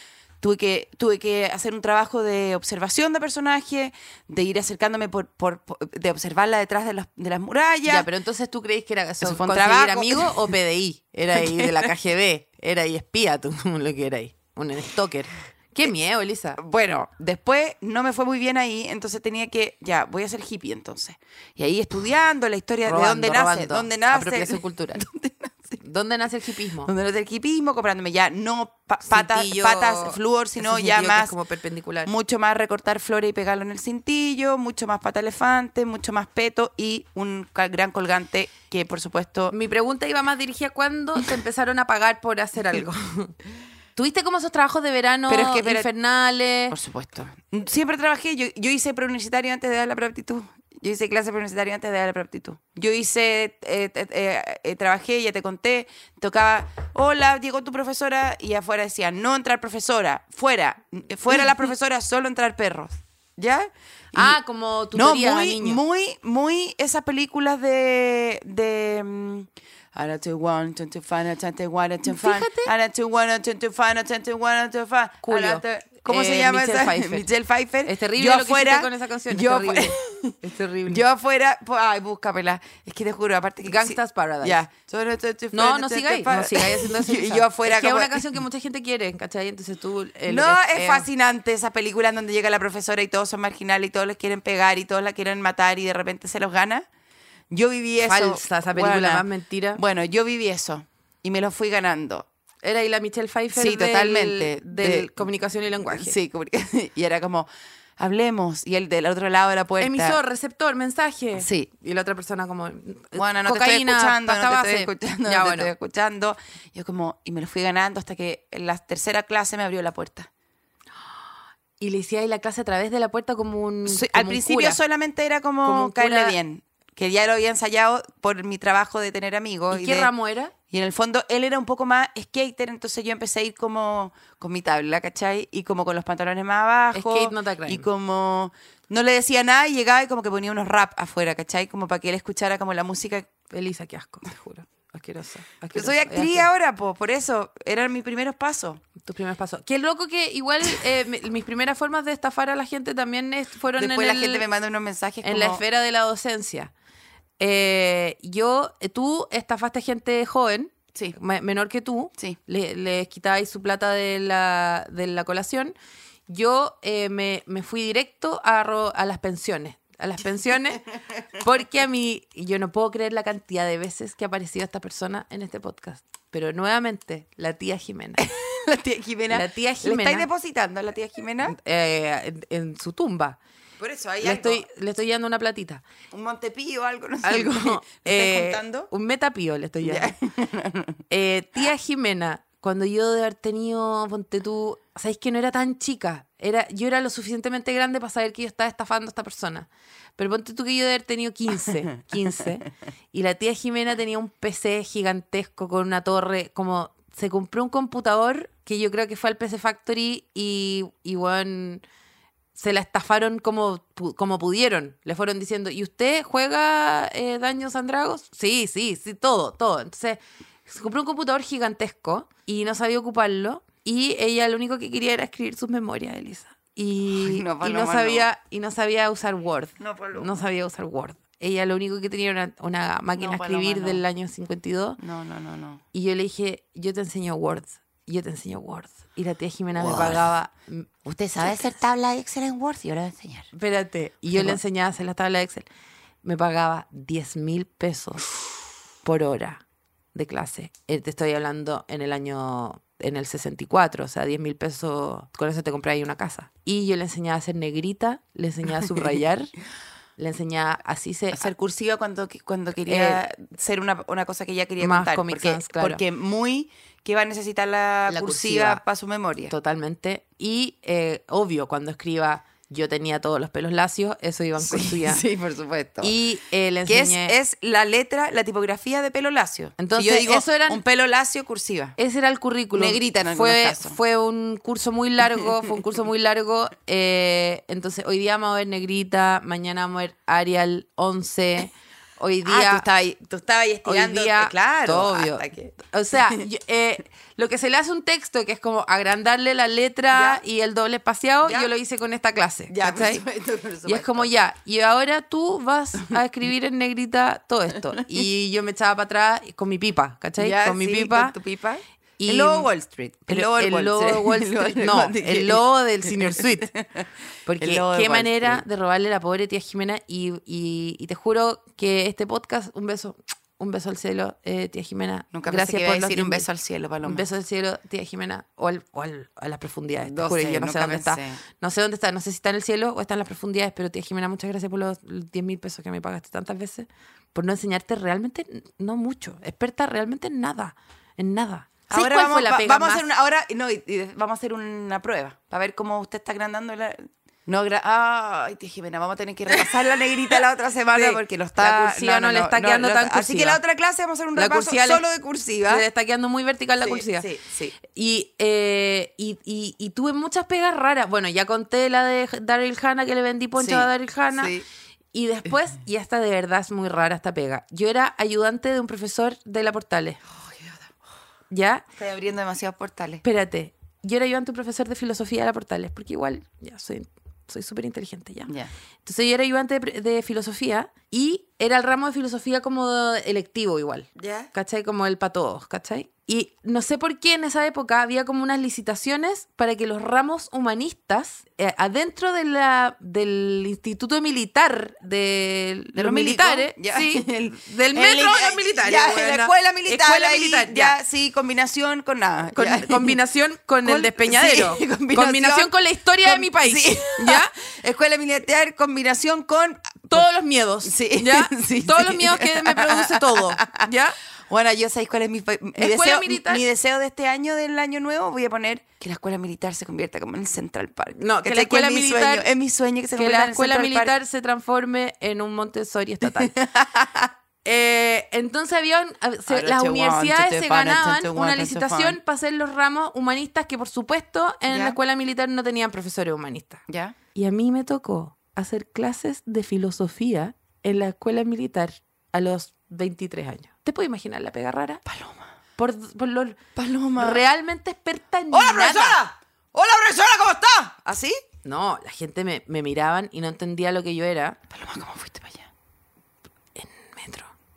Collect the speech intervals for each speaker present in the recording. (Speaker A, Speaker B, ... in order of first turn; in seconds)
Speaker A: 0.4-8.1, 9.2-10.5, 11.3-11.9, 16.6-25.8, 26.8-31.4, 32.0-39.5, 45.3-45.9, 46.7-64.4, 64.9-80.3, 80.9-88.2, 90.2-96.8, 97.5-102.3, 103.5-105.2, 105.8-107.5, 108.0-110.2, 111.3-111.7, 113.1-120.3, 123.8-130.1, 130.7-143.3, 145.7-148.8, 153.8-155.6, 178.2-181.6, 183.8-184.7, 186.1-188.9, 189.8-191.0, 227.1-228.3, 229.8-230.4, 233.2-234.0, 235.0-235.8, 239.7-240.3, 241.0-243.5, 244.3-244.6, 261.3-269.5, 274.6-276.1, 276.9-282.0, 282.7-284.0, 285.4-285.7, 292.4-296.4, 300.1-300.4, 301.4-301.7, 302.7-304.3, 307.9-308.2, 310.4-317.1, 317.6-318.6, 325.3-327.2, 330.1-331.4, 341.9-355.8, 356.8-357.8, 363.6-364.6, 370.4-370.9, 371.9-373.2, 384.2-384.5, 395.9-403.2, 403.8-410.2, 410.8-413.9, 414.5-424.1, 426.3-427.3, 429.5-432.2, 434.7-435.0, 436.9-437.1, 445.0-445.5, 446.8-447.4, 448.5-451.4, 454.7-455.7
Speaker B: 7.8-16.6, 22.8-25.1, 25.8-26.9, 29.1-32.1, 39.5-43.4, 44.0-46.8, 64.1-65.8, 72.0-72.7, 75.2-77.2, 77.8-81.0, 83.7-84.6, 85.5-91.1, 98.0-99.8, 102.6-106.2, 109.8-115.7, 121.8-124.8, 125.6-126.4, 129.7-130.5, 136.9-137.8, 143.5-146.5, 149.0-154.4, 155.2-156.7, 157.4-165.7, 166.3-178.2, 179.3-180.3, 181.4-183.4, 184.2-185.8, 187.2-190.1, 191.1-211.8, 212.5-235.0, 235.9-240.9, 243.5-245.6, 246.2-248.2, 249.0-249.6, 250.1-259.5, 260.2-261.5, 262.8-263.2, 264.8-266.0, 268.1-268.8, 269.5-275.2, 276.0-277.3, 279.8-280.8, 282.0-292.8, 293.8-303.2, 303.9-311.3, 312.2-312.7, 313.3-316.7, 317.4-326.5, 327.0-343.0, 350.9-353.6, 354.3-355.0, 355.7-357.3, 357.8-364.5, 365.1-370.2, 371.5-371.8, 373.2-378.5, 379.0-401.0, 402.5-407.5, 410.1-414.1, 415.8-416.6, 421.1-422.4, 423.1-426.5, 427.6-436.8, 437.3-445.0, 445.8-446.6, 447.1-449.2, 451.6-454.6, 456.8-457.5